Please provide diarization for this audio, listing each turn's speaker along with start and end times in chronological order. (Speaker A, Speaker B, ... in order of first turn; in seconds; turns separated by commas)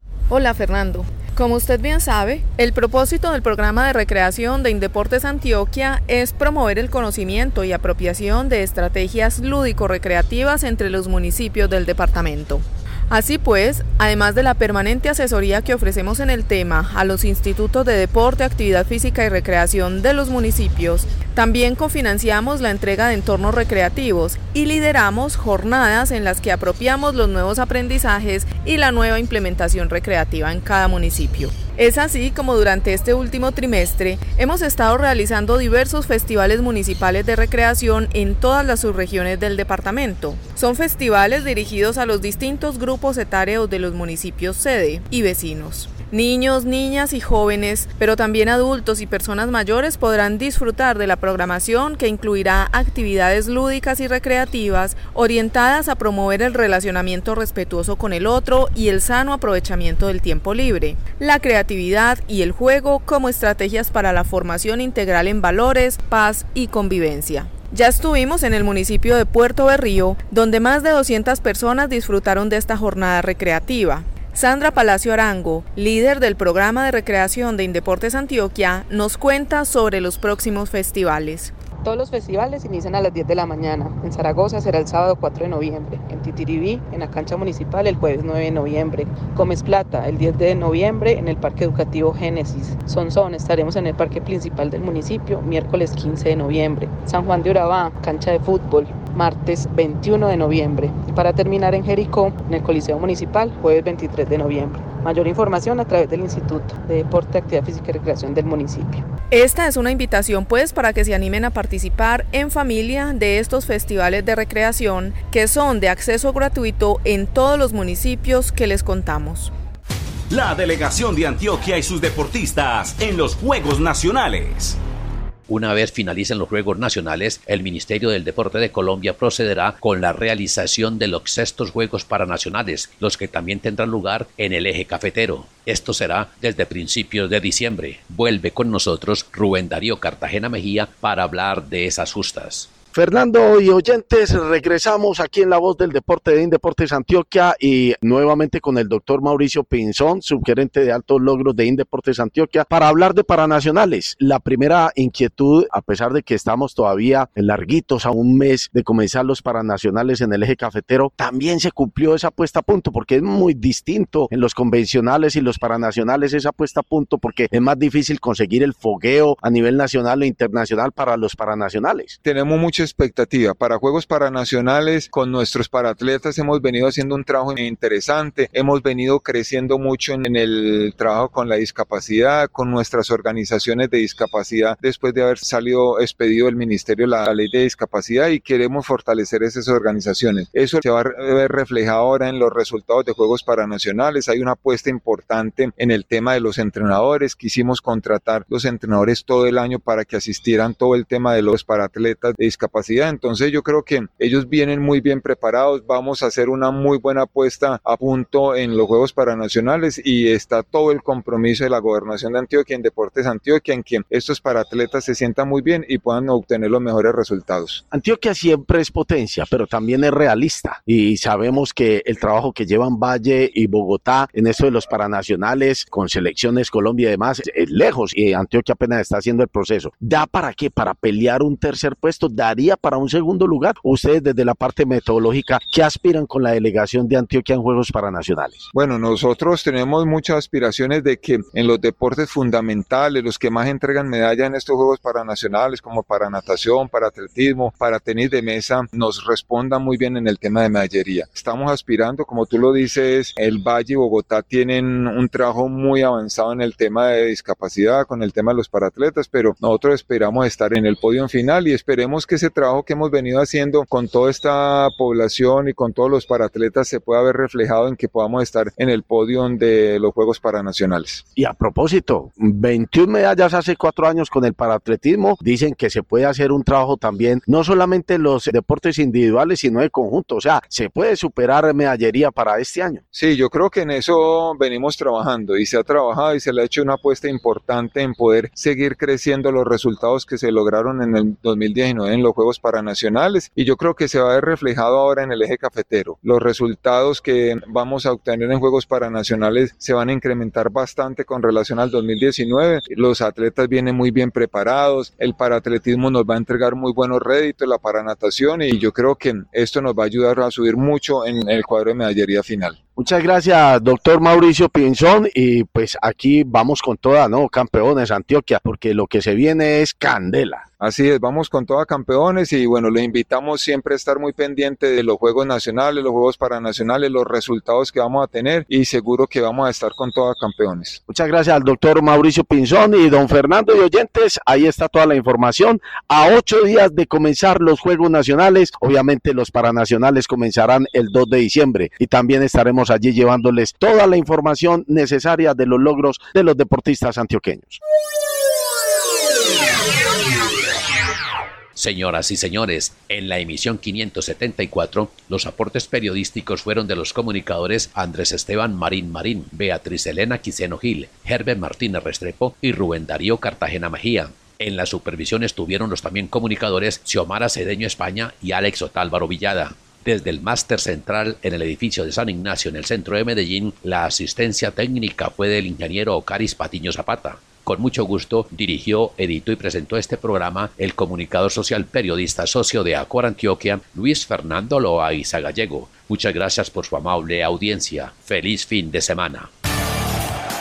Speaker A: 0.3-81.5, Speaker B: 81.8-109.0, Speaker A: 109.3-119.5, Speaker C: 120.3-124.8, Speaker D: 125.5-142.7, Speaker E: 142.9-172.2, Speaker F: 172.2-217.8, Speaker E: 217.9-238.7, Speaker F: 238.7-271.2, Speaker E: 271.4-283.0, Speaker F: 283.1-312.8, Speaker E: 312.9-320.6, Speaker F: 320.8-331.0, Speaker E: 331.1-347.8, Speaker D: 351.8-389.5